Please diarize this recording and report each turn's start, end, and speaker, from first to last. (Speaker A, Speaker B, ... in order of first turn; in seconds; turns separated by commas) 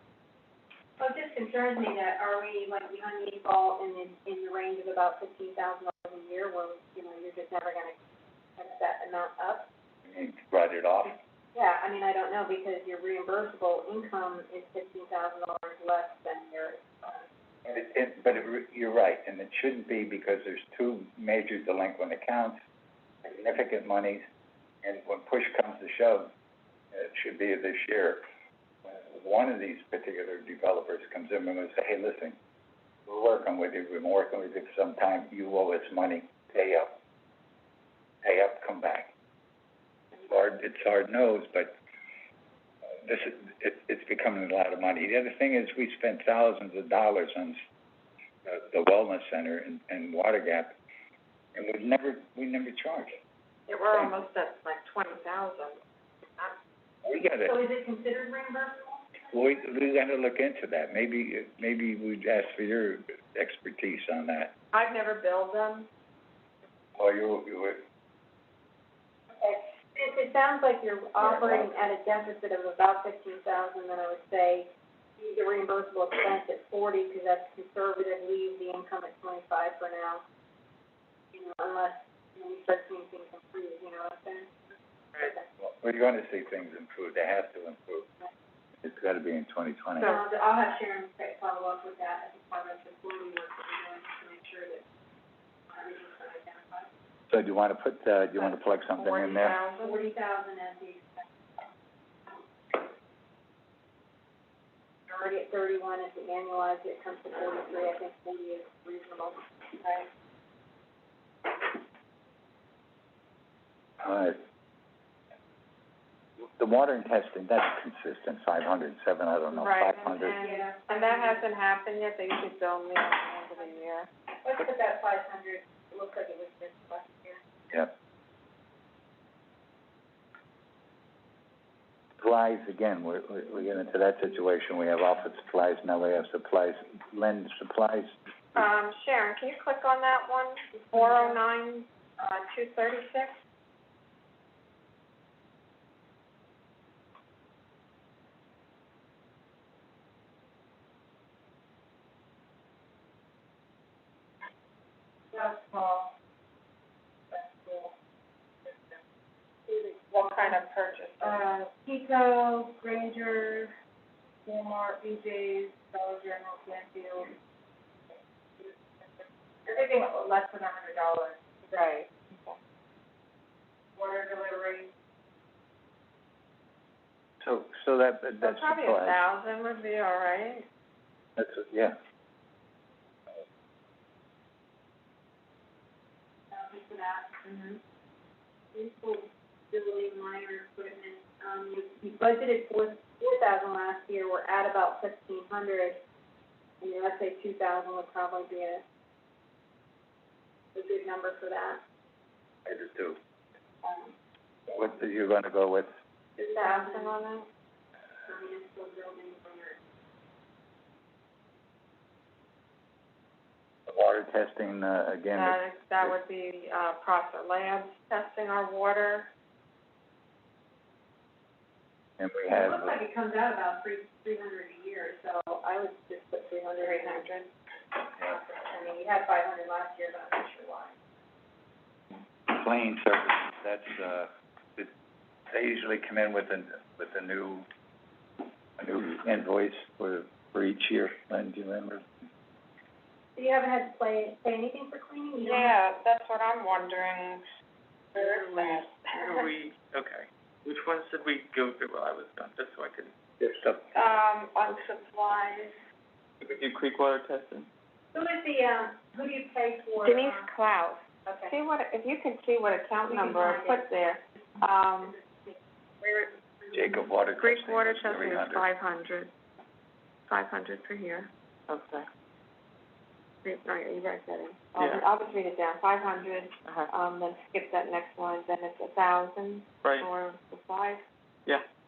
Speaker A: 1.0-8.0, Speaker A: 8.6-9.7, Speaker B: 10.1-11.2, Speaker A: 11.5-17.2, Speaker B: 17.6-22.6, Speaker B: 23.2-24.2, Speaker B: 24.8-26.3, Speaker B: 26.9-28.2, Speaker B: 28.9-32.4, Speaker B: 33.1-36.9, Speaker B: 38.2-39.1, Speaker B: 40.2-41.8, Speaker B: 43.0-47.6, Speaker B: 48.5-50.8, Speaker B: 51.5-53.2, Speaker C: 53.7-55.8, Speaker B: 57.0-57.5, Speaker A: 57.4-59.3, Speaker B: 59.3-64.5, Speaker C: 64.7-65.9, Speaker B: 67.0-67.8, Speaker A: 69.3-80.2, Speaker B: 71.2-71.9, Speaker A: 81.3-85.5, Speaker B: 85.6-88.1, Speaker B: 88.8-90.1, Speaker A: 90.0-94.8, Speaker A: 95.7-96.9, Speaker B: 97.3-99.6, Speaker C: 99.0-100.1, Speaker A: 99.7-101.2, Speaker A: 102.3-102.9, Speaker A: 105.1-110.1, Speaker B: 114.0-114.4, Speaker B: 116.4-120.4, Speaker C: 119.5-124.1, Speaker A: 120.2-121.5, Speaker A: 123.5-123.8, Speaker A: 124.4-127.4, Speaker B: 132.2-138.2, Speaker C: 138.6-143.4, Speaker A: 140.8-141.4, Speaker A: 155.3-156.1, Speaker A: 157.3-157.9, Speaker A: 159.7-160.6, Speaker C: 160.1-161.4, Speaker A: 161.2-163.8, Speaker A: 164.5-167.3, Speaker A: 168.6-171.4, Speaker C: 171.7-172.6, Speaker A: 174.0-174.9, Speaker B: 177.4-179.2, Speaker C: 178.4-180.7, Speaker B: 181.4-182.0, Speaker A: 186.5-187.4, Speaker C: 187.4-187.8, Speaker A: 188.7-196.0, Speaker A: 196.8-198.8, Speaker A: 200.7-201.8, Speaker B: 202.7-203.2, Speaker B: 204.7-205.9, Speaker A: 206.4-207.2, Speaker C: 206.6-207.5, Speaker A: 208.2-209.8, Speaker B: 213.9-216.2, Speaker C: 215.3-219.3, Speaker B: 222.2-223.0, Speaker A: 222.5-227.3, Speaker C: 226.8-227.5, Speaker A: 228.1-230.9, Speaker B: 232.5-234.9, Speaker B: 235.5-237.7, Speaker B: 238.8-242.1, Speaker A: 243.3-245.8, Speaker C: 245.4-247.4, Speaker C: 248.2-249.5, Speaker A: 248.2-249.0, Speaker D: 249.2-253.1, Speaker B: 253.4-253.8, Speaker C: 253.9-255.8, Speaker D: 256.4-257.7, Speaker A: 258.1-260.5, Speaker C: 260.0-265.2, Speaker A: 261.2-261.6, Speaker A: 263.1-263.9, Speaker A: 264.6-267.1, Speaker B: 266.7-268.7, Speaker C: 267.4-269.3, Speaker C: 270.3-271.3, Speaker D: 271.7-272.1, Speaker C: 273.4-281.0, Speaker D: 276.6-276.9